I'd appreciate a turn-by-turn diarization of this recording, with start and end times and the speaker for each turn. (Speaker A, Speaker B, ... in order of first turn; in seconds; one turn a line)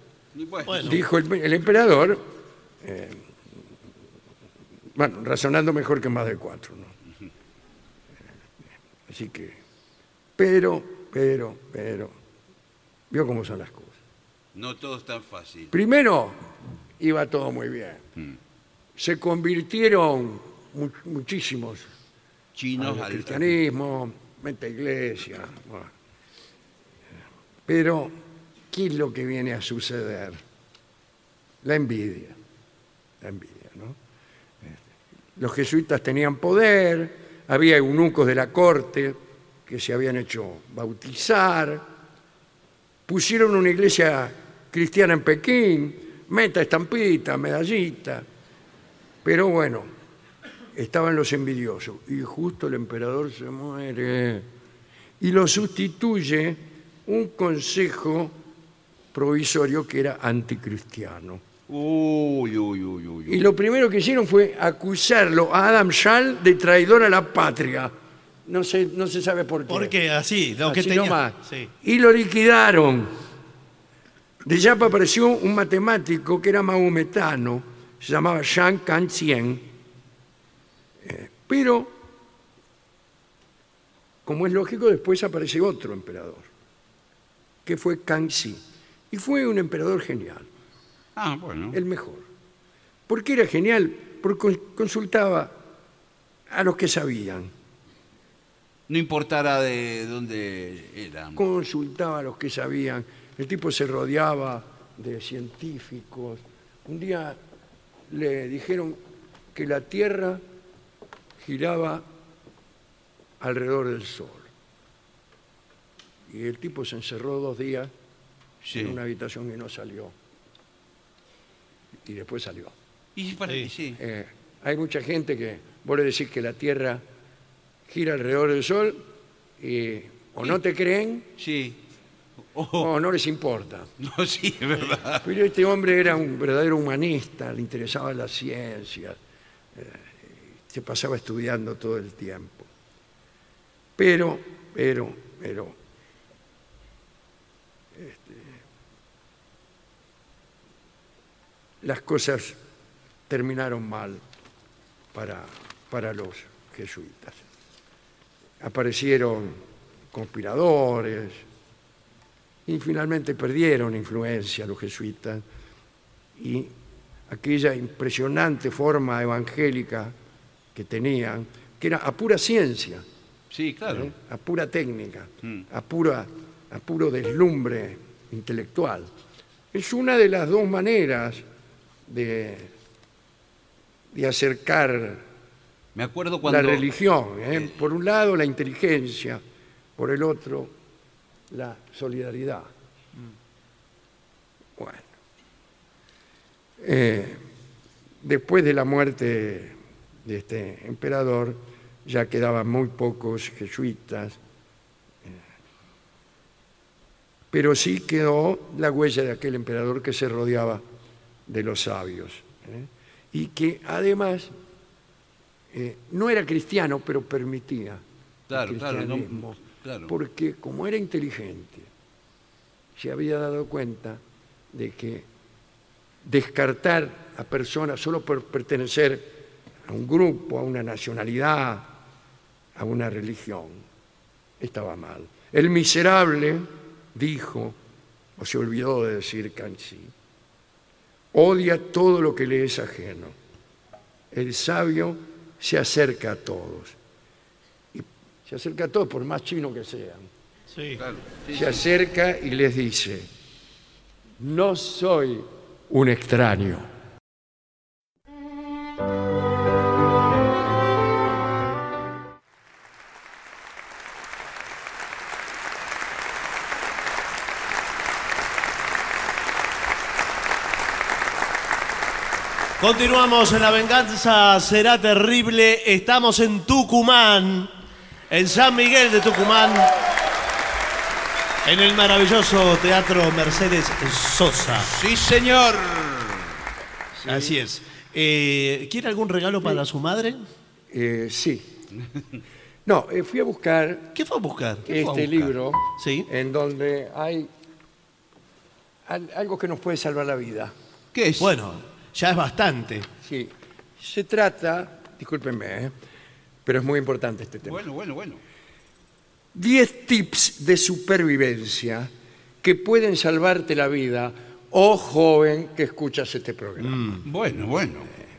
Speaker A: 0.3-1.0
Speaker B: 0.7-1.0
Speaker C: 0.8-2.2
Speaker C: 2.8-3.2
Speaker C: 5.0-6.9
Speaker C: 9.1-9.6
Speaker C: 10.4-12.1
Speaker C: 13.1-14.0
Speaker A: 14.5-15.7
Speaker C: 15.7-18.0
Speaker C: 19.0-21.9
Speaker A: 22.6-23.5
Speaker C: 22.8-25.9
Speaker C: 27.7-28.1
Speaker C: 28.7-30.4
Speaker C: 31.6-32.4
Speaker C: 33.2-34.0
Speaker C: 35.4-41.9
Speaker C: 43.1-48.2
Speaker C: 49.2-49.9
Speaker C: 50.7-54.5
Speaker C: 55.2-58.4
Speaker C: 59.1-61.4
Speaker A: 61.7-63.5
Speaker C: 63.3-67.9
Speaker C: 68.5-70.0
Speaker B: 69.7-71.7
Speaker C: 70.7-73.1
Speaker C: 74.4-79.7
Speaker C: 81.0-82.0
Speaker C: 84.2-86.5
Speaker C: 87.7-90.5
Speaker A: 91.2-91.8
Speaker C: 91.7-92.3
Speaker C: 93.1-95.6
Speaker C: 96.5-97.5
Speaker A: 98.9-101.4
Speaker C: 101.4-107.4
Speaker C: 108.1-109.0
Speaker C: 109.5-110.4
Speaker C: 111.4-112.1
Speaker C: 113.4-114.5
Speaker C: 116.3-117.9
Speaker A: 118.6-119.0
Speaker C: 118.7-120.2
Speaker C: 122.0-122.8
Speaker A: 123.2-124.0
Speaker C: 124.0-127.0
Speaker C: 127.9-129.0
Speaker C: 129.6-131.3
Speaker A: 131.4-131.8
Speaker A: 132.6-132.9
Speaker C: 132.8-133.9
Speaker A: 134.0-135.2
Speaker C: 135.2-139.2
Speaker C: 139.7-142.7
Speaker C: 144.0-145.8
Speaker C: 147.9-148.6
Speaker C: 151.8-152.6
Speaker C: 153.3-154.2
Speaker C: 155.1-157.4
Speaker C: 158.6-159.6
Speaker C: 160.1-161.4
Speaker C: 162.7-165.4
Speaker C: 166.4-166.7
Speaker C: 167.3-170.1
Speaker C: 170.7-173.1
Speaker A: 173.5-174.1
Speaker C: 173.9-179.1
Speaker C: 179.7-181.4
Speaker C: 182.1-182.7
Speaker C: 184.1-185.2
Speaker A: 185.9-186.9
Speaker C: 186.4-189.4
Speaker C: 190.0-190.7
Speaker C: 191.5-192.7
Speaker C: 194.8-195.1
Speaker C: 196.8-197.4
Speaker C: 198.2-204.4
Speaker C: 207.5-210.8
Speaker C: 211.5-214.5
Speaker C: 215.7-221.9
Speaker A: 218.5-220.1
Speaker C: 223.0-225.3
Speaker C: 226.2-231.9
Speaker C: 232.8-233.8
Speaker C: 234.6-237.8
Speaker C: 238.4-240.1
Speaker C: 241.3-243.4
Speaker C: 244.3-247.0
Speaker C: 247.9-250.3
Speaker B: 250.7-251.0
Speaker A: 251.0-251.8
Speaker C: 251.5-253.3
Speaker C: 254.4-256.9
Speaker B: 272.8-277.7
Speaker B: 278.3-279.9
Speaker B: 281.6-284.9
Speaker A: 284.8-286.5
Speaker C: 287.2-287.6
Speaker B: 287.2-290.4
Speaker C: 290.9-291.7
Speaker C: 292.9-294.2
Speaker B: 294.1-294.9
Speaker C: 294.9-297.5
Speaker A: 294.9-295.5
Speaker B: 296.0-296.3
Speaker C: 299.1-300.7
Speaker A: 301.1-301.5
Speaker B: 301.4-303.1
Speaker C: 303.2-305.9
Speaker C: 306.6-307.8
Speaker A: 307.6-308.4
Speaker C: 309.5-312.1
Speaker C: 312.6-317.2
Speaker B: 316.8-317.2
Speaker A: 317.2-318.1